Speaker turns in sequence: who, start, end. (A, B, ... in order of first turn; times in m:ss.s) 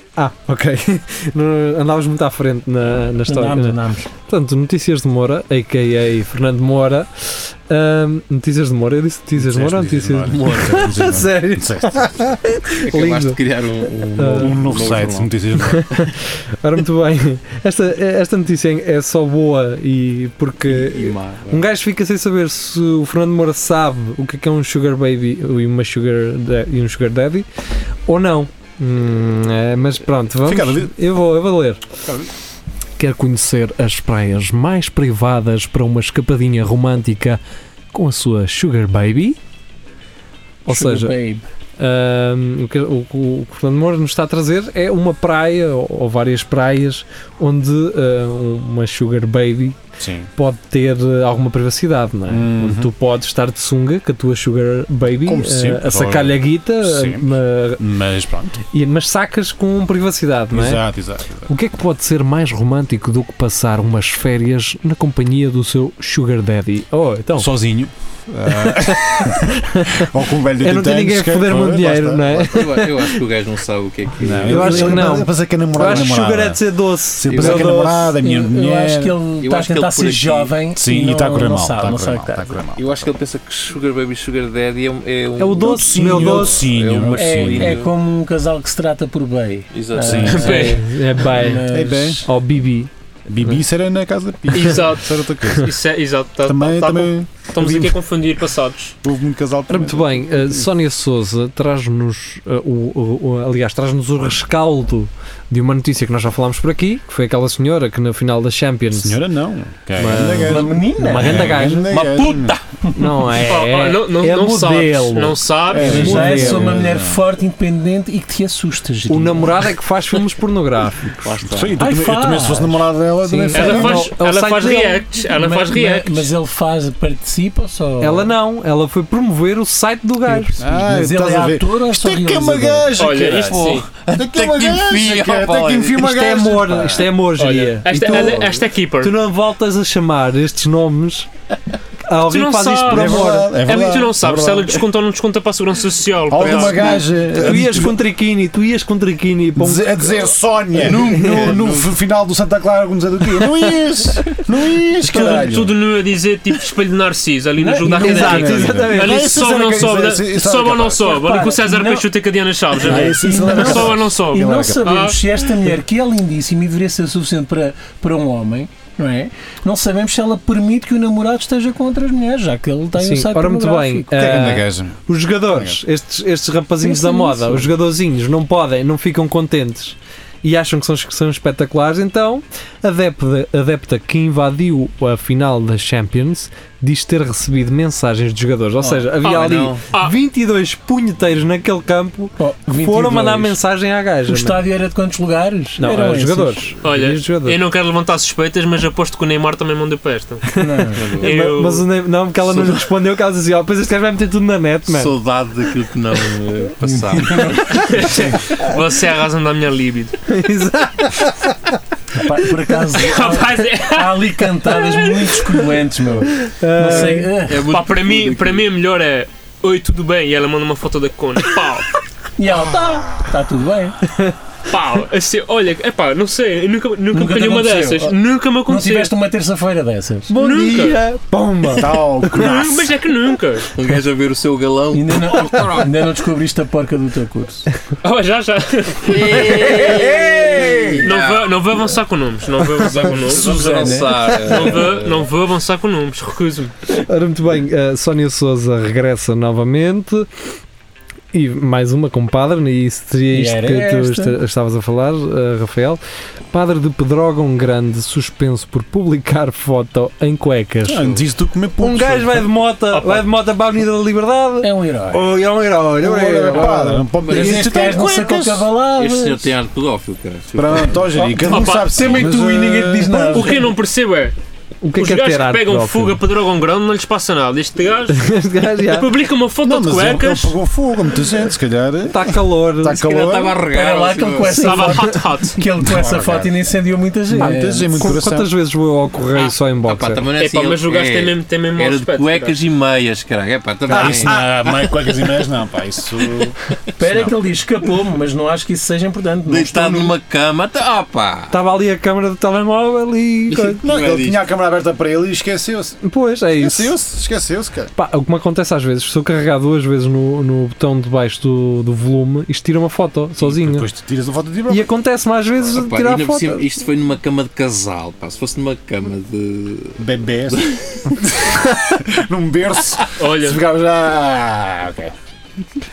0:00.2-0:13.4 A
0:03.2-0:04.1 B
0:09.4-0:12.4 C
0:10.3-0:11.0 D
0:12.8-0:15.3 D
0:14.1-0:14.6 A
0:14.2-0:15.8 C
0:15.6-0:27.5 A
0:20.6-0:21.6 D
0:28.0-0:31.8 A
0:30.4-0:30.9 C
0:32.0-0:32.3 C
0:33.0-0:37.4 A
0:37.9-0:39.4 A
0:40.6-0:41.2 A
0:40.7-0:41.4 B
0:41.8-0:49.8 A
0:50.0-0:50.3 C
0:50.4-0:57.8 A
0:52.3-0:52.9 C
0:55.2-0:58.6 C
0:58.6-1:00.8 A
1:00.5-1:01.5 C
1:01.5-1:07.5 A
1:07.4-1:12.7 C
1:08.5-1:10.1 A
1:10.6-1:13.2 A
1:12.5-1:14.9 D
1:14.2-1:19.2 C
1:14.4-1:18.1 A
1:14.6-1:15.2 B
1:17.3-1:17.9 D
1:18.1-1:22.6 B
1:19.4-1:20.6 D
1:20.7-1:23.2 C
1:22.8-1:27.9 D
1:25.4-1:26.6 A
1:25.6-1:27.8 C
1:27.2-1:32.3 B
1:29.7-1:30.6 D
1:30.0-1:30.7 C
1:30.2-1:30.8 E
1:30.4-1:32.9 A
1:31.6-1:32.3 C
1:33.3-1:35.7 C
1:34.5-1:38.9 E
1:36.4-1:38.0 C
1:39.0-1:40.7 C
1:39.7-1:49.2 A
1:48.9-1:52.6 C
1:50.0-1:52.2 A
1:50.2-1:51.6 B
1:51.9-1:52.6 D
1:52.9-1:56.8 A
1:53.4-1:56.2 E
1:55.7-1:59.7 B
1:55.7-1:57.2 C
1:59.1-2:01.3 A
2:01.2-2:01.8 D
2:01.4-2:04.1 C
2:01.8-2:02.8 B
2:03.3-2:05.0 A
2:03.5-2:06.3 E
2:05.2-2:08.3 B
2:08.0-2:10.6 A
2:10.2-2:12.9 B
2:10.6-2:17.0 C
2:13.0-2:13.9 E
2:13.3-2:16.1 D
2:15.9-2:21.3 A
2:17.4-2:19.1 E
2:18.1-2:18.5 D
2:22.0-2:23.5 A
2:22.3-2:27.0 E
2:22.8-2:24.8 C
2:26.3-2:28.0 C
2:27.3-2:30.1 A
2:29.6-2:35.8 C
2:30.8-2:31.9 D
2:30.9-2:31.5 A
2:35.1-2:45.2 E
2:37.6-2:38.4 B
2:37.8-2:41.1 C
2:37.9-2:39.8 A
2:41.0-2:42.1 B
2:42.8-2:45.0 C
2:42.8-2:54.2 B
2:53.0-3:14.6 A
2:54.1-2:55.8 C
2:56.8-2:57.7 B
3:08.8-3:09.8 D
3:12.4-3:13.6 B
3:14.3-3:16.7 B
3:15.8-3:17.6 A
3:16.8-3:20.5 E
3:20.6-3:21.1 B
3:20.7-3:25.1 A
3:20.9-3:21.3 D
3:21.2-3:21.8 E
3:22.5-3:22.8 D
3:24.9-3:27.8 D
3:26.8-3:28.4 B
3:27.7-3:30.2 E
3:30.3-3:31.7 A
3:32.1-3:37.7 B
3:32.9-3:35.6 E
3:36.4-3:37.3 A
3:37.4-3:38.6 D
3:37.6-3:41.9 E
3:42.4-3:44.0 B
3:44.7-3:49.1 E
3:47.1-3:50.3 B
3:50.3-3:52.0 A
3:50.4-3:51.0 E
3:51.7-3:52.9 C
3:52.3-3:53.7 E
3:53.7-3:56.0 D
3:54.9-3:57.7 B
3:58.0-4:00.0 E
3:59.0-4:01.6 D
3:59.3-4:01.1 B
4:01.0-4:03.5 E
4:03.0-4:05.2 D
4:03.0-4:04.8 B
4:04.4-4:06.7 E
4:06.9-4:10.3 A
4:11.3-4:16.0 A
4:13.3-4:14.4 B
4:16.5-4:21.2 A
4:20.9-4:22.5 C
4:21.8-4:27.0 A
4:24.6-4:25.2 B
4:26.0-4:28.7 C
4:26.5-4:29.5 B
4:27.2-4:27.8 D
4:28.9-4:31.1 D
4:30.5-4:33.3 C
4:31.1-4:33.7 B
4:31.5-4:32.2 E
4:33.3-4:34.3 E
4:34.8-4:36.2 A
4:35.0-4:38.2 E
4:38.1-4:39.1 A
4:38.8-4:40.6 E
4:39.6-4:43.6 C
4:42.1-4:43.0 A
4:43.0-4:44.9 D
4:43.6-4:48.2 B
4:44.5-4:45.6 E
4:45.8-4:46.5 C
4:47.3-4:48.5 C
4:47.3-4:50.2 A
4:49.4-4:54.5 D
4:50.4-4:52.6 E
4:53.9-4:57.3 C
4:53.9-4:54.4 A
4:57.0-5:00.2 B
4:59.4-5:01.5 D
5:01.5-5:03.8 A
5:03.5-5:04.4 D
5:03.8-5:06.0 C
5:06.0-5:06.9 A
5:06.6-5:07.9 C
5:07.9-5:13.9 A
5:13.4-5:14.9 C
5:14.7-5:16.6 A
5:15.7-5:21.2 D
5:20.0-5:25.1 C
5:23.2-5:23.6 E